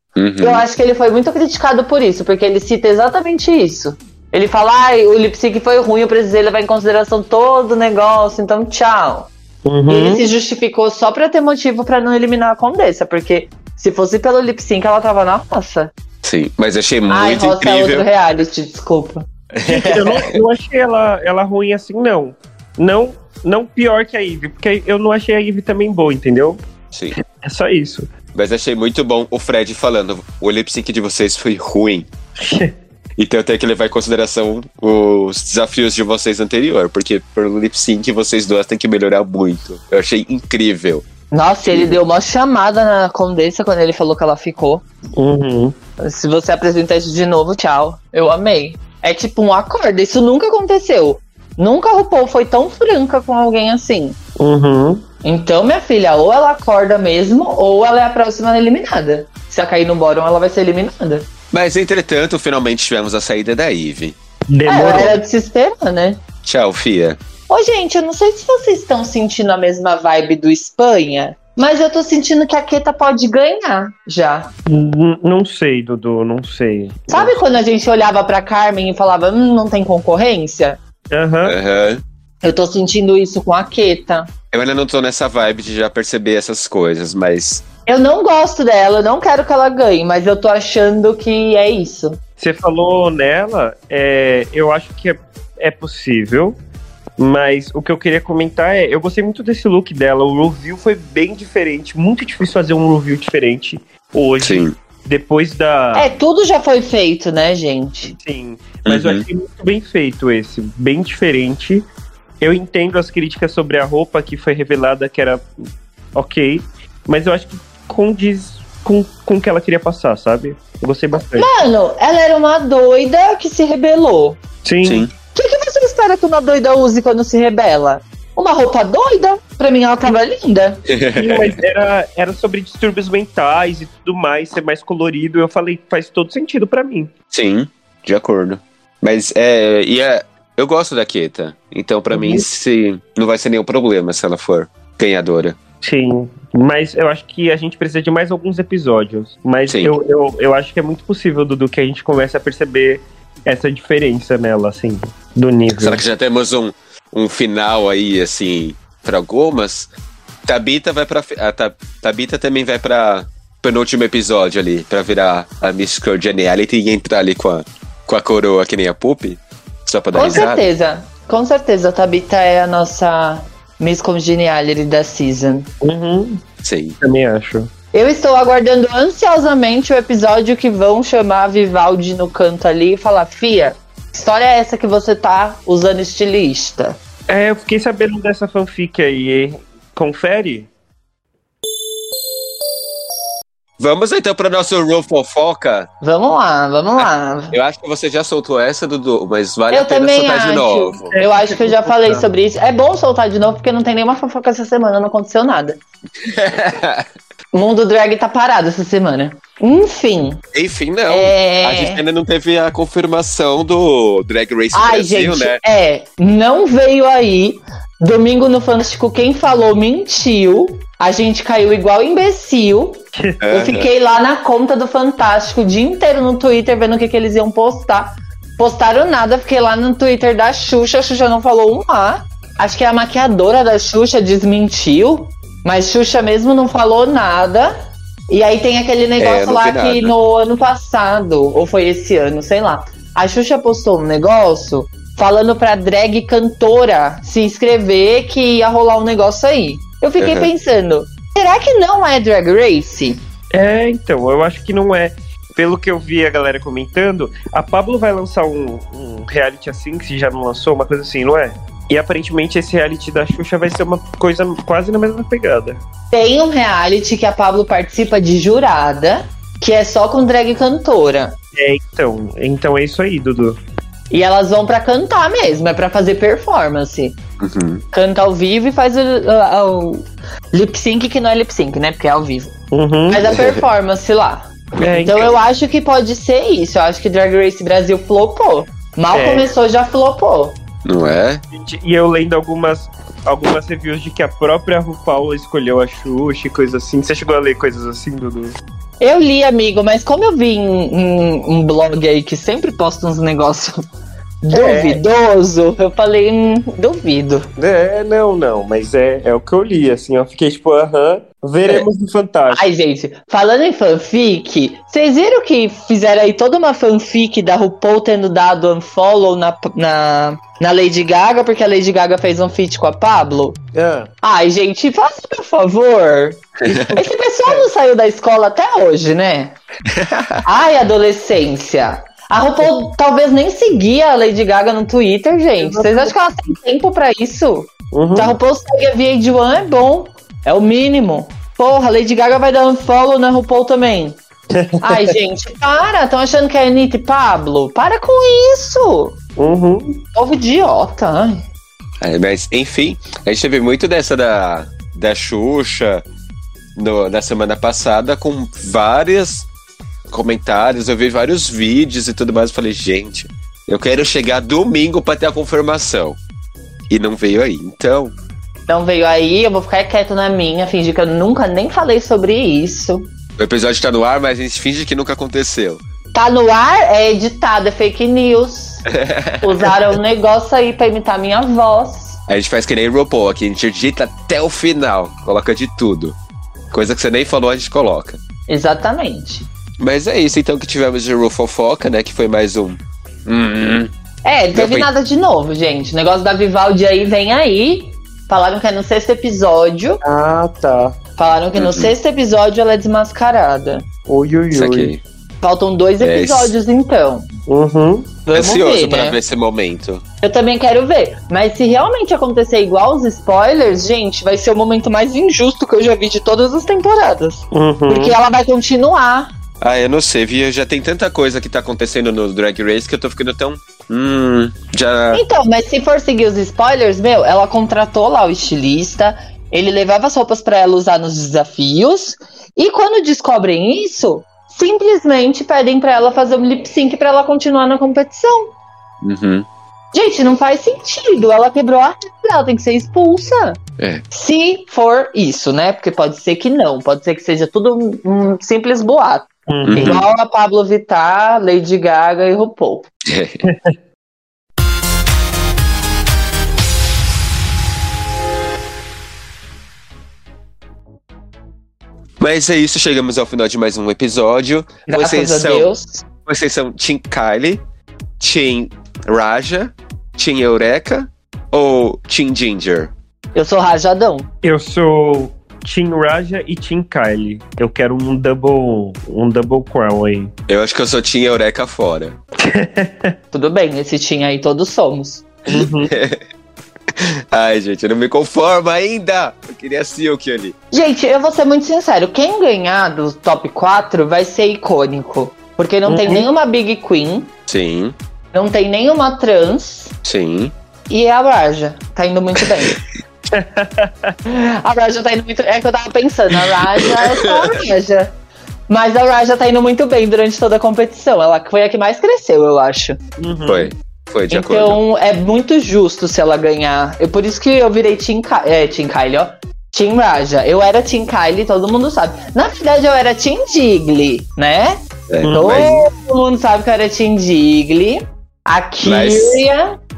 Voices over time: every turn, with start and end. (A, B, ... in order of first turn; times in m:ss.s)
0:00.2-0:00.6 A
0:00.4-0:09.3 B
0:09.7-0:10.3 C
0:09.9-0:15.9 B
0:16.2-0:18.1 A
0:17.1-0:19.3 B
0:19.5-0:20.4 A
0:19.7-0:26.6 C
0:27.2-0:28.1 C
0:28.4-0:32.1 A
0:32.4-0:32.7 C
0:33.2-0:41.0 A
0:41.3-0:44.8 B
0:41.7-0:42.0 A
0:45.2-0:45.8 C
0:46.0-0:54.2 B
0:54.4-0:55.0 C
0:55.2-1:01.3 B
1:01.5-1:04.2 A
1:04.5-1:05.2 C
1:04.7-1:06.2 B
1:06.4-1:07.2 A
1:07.5-1:14.5 B
1:14.7-1:17.4 C
1:17.1-1:20.8 B
1:21.1-1:21.6 C
1:21.4-1:22.0 A
1:22.4-1:24.3 B
1:24.5-1:27.6 A
1:27.9-1:32.2 B
1:32.4-1:36.6 C
1:37.2-1:46.2 C
1:44.4-1:44.7 A
1:46.0-1:48.1 B
1:48.1-1:51.9 C
1:48.9-1:49.2 A
1:52.4-1:55.5 C
1:56.2-2:01.5 C
2:01.3-2:04.4 B
2:04.6-2:05.1 C
2:04.8-2:05.1 A
2:05.4-2:10.8 B
2:10.9-2:11.6 A
2:11.2-2:17.1 C
2:17.3-2:25.6 A
2:22.1-2:22.4 C
2:25.8-2:36.0 C
2:29.7-2:29.9 A
2:35.7-2:39.9 A
2:40.5-2:50.7 A
2:50.1-2:55.7 B
2:55.8-2:56.4 C
2:56.6-2:57.0 A
2:57.0-2:57.7 C
2:57.9-3:07.0 B
3:07.3-3:10.7 C
3:13.8-3:15.9 A
3:16.0-3:17.6 B
3:17.0-3:21.2 A
3:19.7-3:25.8 B
3:21.1-3:22.3 C
3:26.2-3:27.1 A
3:27.5-3:30.4 B
3:30.5-3:35.6 A
3:31.1-3:32.0 B
3:34.7-3:57.7 B
3:43.2-3:43.4 C
3:43.4-3:43.9 A
3:58.3-4:13.2 B
3:59.2-4:00.1 A
4:10.2-4:10.5 A
4:13.5-4:25.8 C
4:26.1-4:31.4 B
4:31.6-4:33.6 C
4:34.1-4:37.2 B
4:37.4-4:37.8 A
4:37.9-4:42.5 B
4:42.7-4:43.3 C
4:43.1-4:50.6 B
4:43.3-4:43.6 A
4:44.8-4:45.4 C
4:49.1-4:49.5 C
4:50.8-4:51.4 A
4:51.5-4:58.6 C
4:59.0-5:03.8 B
5:04.4-5:07.5 B
5:04.5-5:05.0 C
5:07.6-5:12.6 C
5:12.5-5:23.6 B
5:23.7-5:24.1 C
5:24.2-5:29.6 B
5:26.6-5:27.0 A
5:29.9-5:30.4 A
5:30.4-5:44.2 B
5:35.6-5:36.1 C
5:37.9-5:38.4 C
5:44.5-5:45.1 C
5:44.8-5:49.2 B
5:49.4-5:50.0 C
5:50.1-5:51.4 B
5:52.0-5:56.0 A
5:56.8-5:59.5 A
6:00.1-6:06.2 A
6:06.9-6:08.1 A
6:08.7-6:13.1 B
6:13.4-6:15.8 A
6:16.1-6:18.8 B
6:18.9-6:19.7 A
6:19.4-6:22.2 B
6:22.3-6:26.2 A
6:26.7-6:28.2 A
6:28.5-6:29.5 B
6:29.8-6:33.9 A
6:34.2-6:40.0 B
6:34.5-6:34.9 A
6:40.0-6:41.0 C
6:41.2-6:43.9 B
6:41.6-6:41.9 A
6:44.1-6:44.9 C
6:44.5-6:45.0 A
6:45.4-6:47.3 B
6:46.0-6:46.5 A
6:47.5-6:48.2 C
6:48.3-6:49.2 B
6:48.3-6:50.0 A
6:50.2-6:59.3 B
6:57.5-6:58.2 C
6:59.6-7:05.2 A
7:05.1-7:18.5 B
7:19.0-7:19.5 A
7:19.9-7:23.6 B
7:24.1-7:32.9 B
7:29.5-7:30.0 C
7:29.7-7:30.1 A
7:33.0-7:33.4 A
7:33.4-7:33.7 C
7:42.2-7:45.7 A
7:44.9-7:46.0 B
7:46.2-7:47.6 A
7:48.2-7:52.9 A
7:53.4-7:54.3 B
7:54.4-8:00.3 C
8:00.5-8:02.2 A
8:02.4-8:03.2 C
8:03.3-8:05.3 B
8:05.5-8:05.9 C
8:05.5-8:06.2 A
8:07.0-8:10.6 A
8:10.7-8:17.3 B
8:15.8-8:16.3 C
8:17.5-8:18.0 A
8:18.3-8:19.9 B
8:20.0-8:20.5 A
8:20.9-8:22.8 B
8:23.3-8:24.2 C
8:24.3-8:28.1 B
8:27.0-8:27.6 A
8:28.7-8:33.0 B
8:33.2-8:33.7 C
8:33.5-8:34.8 A
8:34.3-8:44.8 B
8:45.1-8:45.8 A
8:45.2-8:45.8 C
8:45.3-8:49.8 B
8:48.8-8:49.4 A